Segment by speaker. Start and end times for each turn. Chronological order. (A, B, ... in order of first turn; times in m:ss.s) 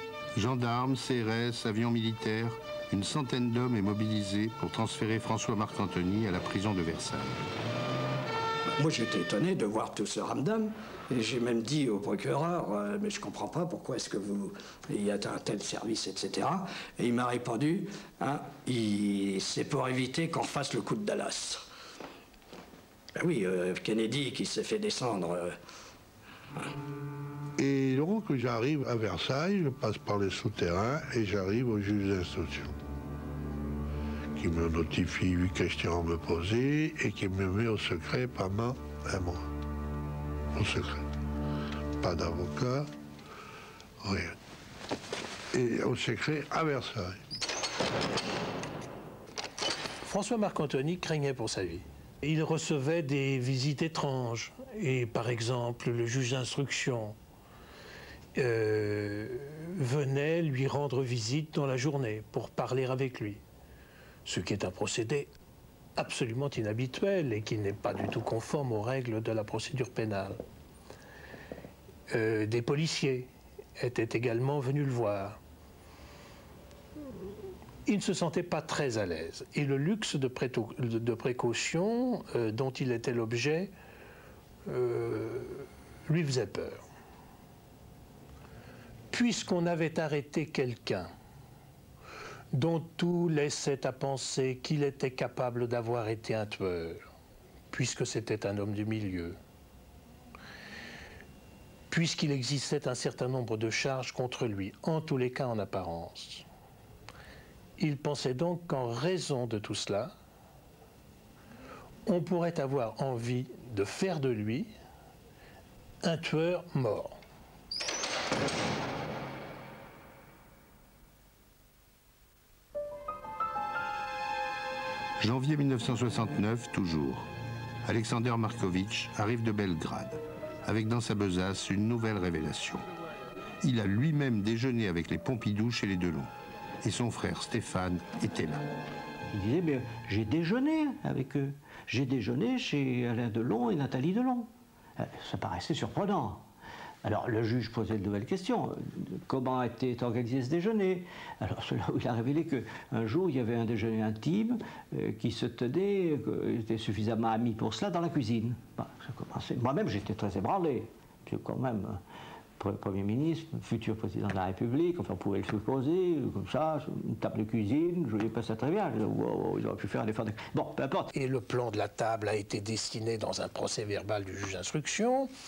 0:00.3-0:07.4 A
0:08.8-0:21.6 B
0:23.2-0:25.6 B
0:27.6-0:32.8 C
0:34.4-0:39.5 C
0:40.5-0:41.0 C
0:42.0-0:42.9 C
0:44.0-0:44.3 C
0:45.5-0:47.2 C
0:50.0-0:57.2 D
0:58.4-1:03.4 D
1:04.2-1:05.3 D
1:06.0-1:10.4 D
1:12.1-1:15.4 D
1:17.8-1:23.7 D
1:24.7-1:26.8 D
1:29.1-1:31.1 D
1:32.5-1:37.0 D
1:37.7-1:39.4 D
1:41.9-1:46.4 D
1:47.8-1:50.1 D
1:52.0-1:54.7 D
1:56.0-1:57.2 D
2:05.2-2:07.3 A
2:07.8-2:12.8 A
2:13.6-2:16.3 A
2:16.8-2:18.6 A
2:19.3-2:26.4 E
2:27.0-2:42.0 E
2:42.6-2:51.1 E
2:51.1-2:55.3 D